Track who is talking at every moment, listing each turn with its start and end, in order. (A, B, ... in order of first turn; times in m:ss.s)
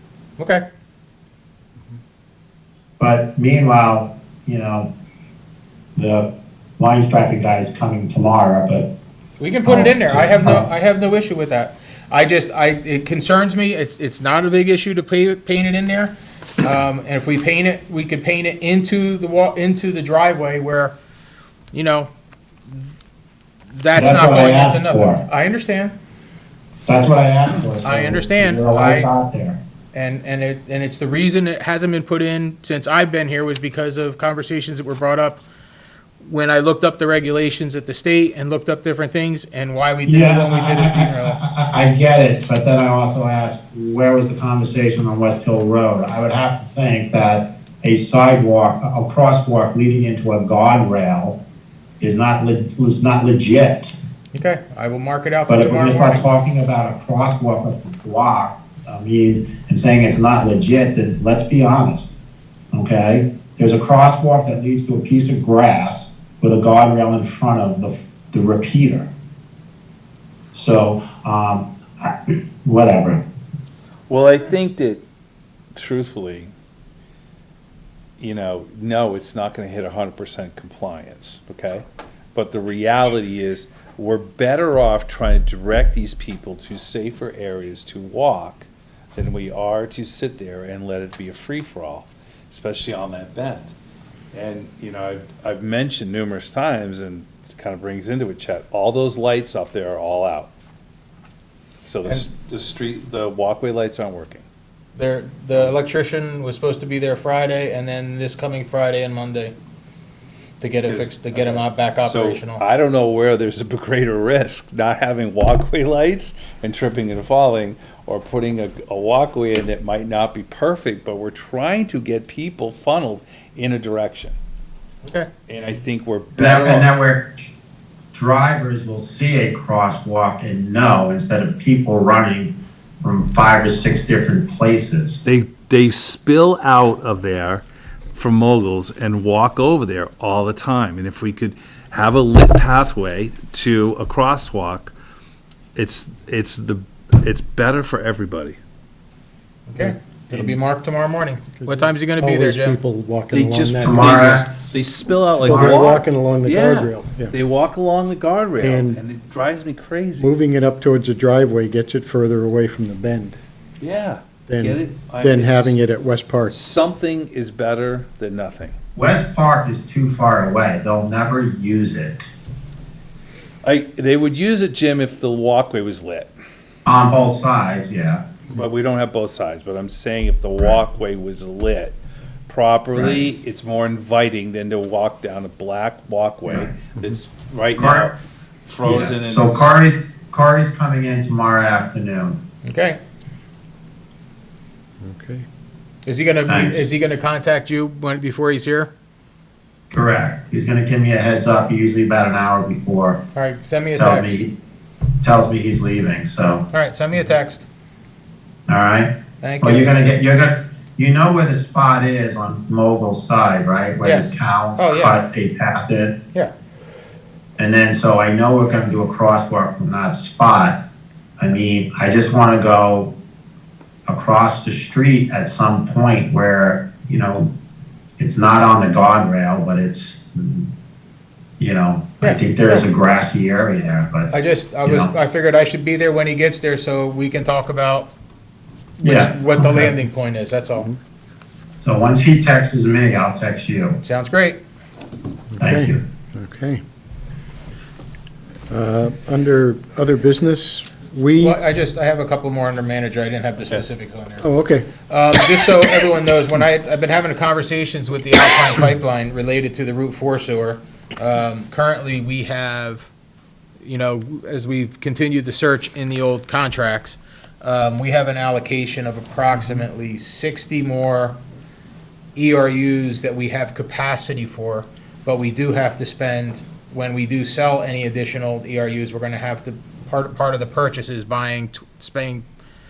0:03.0-0:04.9 A
0:06.0-0:06.3 A
0:06.8-0:08.9 A
0:09.4-0:20.9 B
0:09.6-0:10.6 A
0:21.7-0:22.1 B
0:23.7-0:25.9 B
0:23.9-0:25.2 A
0:26.9-0:29.6 A
0:27.8-0:29.1 B
0:29.9-0:35.4 B
0:36.2-0:41.4 B
0:40.0-0:51.4 A
0:52.0-0:53.9 A
0:54.3-0:56.2 B
0:55.5-1:02.1 A
1:02.7-1:09.1 A
1:10.5-1:13.2 A
1:14.1-1:15.0 C
1:15.7-1:16.5 C
1:18.2-1:33.7 C
1:34.3-1:40.5 C
1:41.8-1:44.4 C
1:45.0-1:49.5 B
1:50.6-1:52.6 B
1:50.8-2:04.4 C
2:05.5-2:06.9 C
2:06.4-2:07.3 A
2:08.1-2:15.2 A
2:15.2-2:24.9 C
2:25.7-2:28.6 C
2:29.7-2:32.8 B
2:31.6-2:34.5 D
2:33.3-2:40.3 C
2:33.8-2:34.5 A
2:35.4-2:37.3 D
2:35.5-2:35.8 A
2:38.6-2:39.0 D
2:40.2-2:43.4 D
2:43.8-2:45.8 C
2:44.5-2:46.6 D
2:46.5-2:48.7 C
2:48.9-2:52.3 A
2:53.6-2:56.3 C
2:56.8-2:58.2 A
2:58.5-3:02.0 C
3:02.5-3:08.2 C
3:02.9-3:03.2 A
3:07.8-3:08.1 A
3:08.7-3:09.7 C
3:08.8-3:12.4 A
3:12.6-3:13.0 B
3:15.0-3:15.4 D
3:16.0-3:18.9 B
3:16.5-3:16.8 A
3:19.9-3:23.2 A
3:23.3-3:24.4 B
3:24.0-3:24.5 A
3:25.2-3:26.6 A
3:26.7-3:27.6 B
3:28.7-3:36.1 A
3:29.4-3:30.0 B
3:34.0-3:35.2 B
3:37.6-3:40.8 A
3:41.4-3:43.1 A
3:44.0-3:47.5 A
3:48.2-3:50.7 A
3:51.6-3:54.3 A
3:52.2-3:52.8 B
3:54.3-3:58.1 B
3:54.8-3:55.1 A
3:59.0-4:00.9 B
3:59.0-3:59.3 A
3:59.6-3:59.9 D
4:01.8-4:04.0 A
4:04.0-4:04.6 B
4:05.5-4:06.8 D
4:05.6-4:06.0 A
4:08.7-4:11.6 D
4:11.4-4:14.4 B
4:14.4-4:14.9 D
4:15.0-4:23.1 B
4:23.8-4:31.4 B
4:32.3-4:42.5 B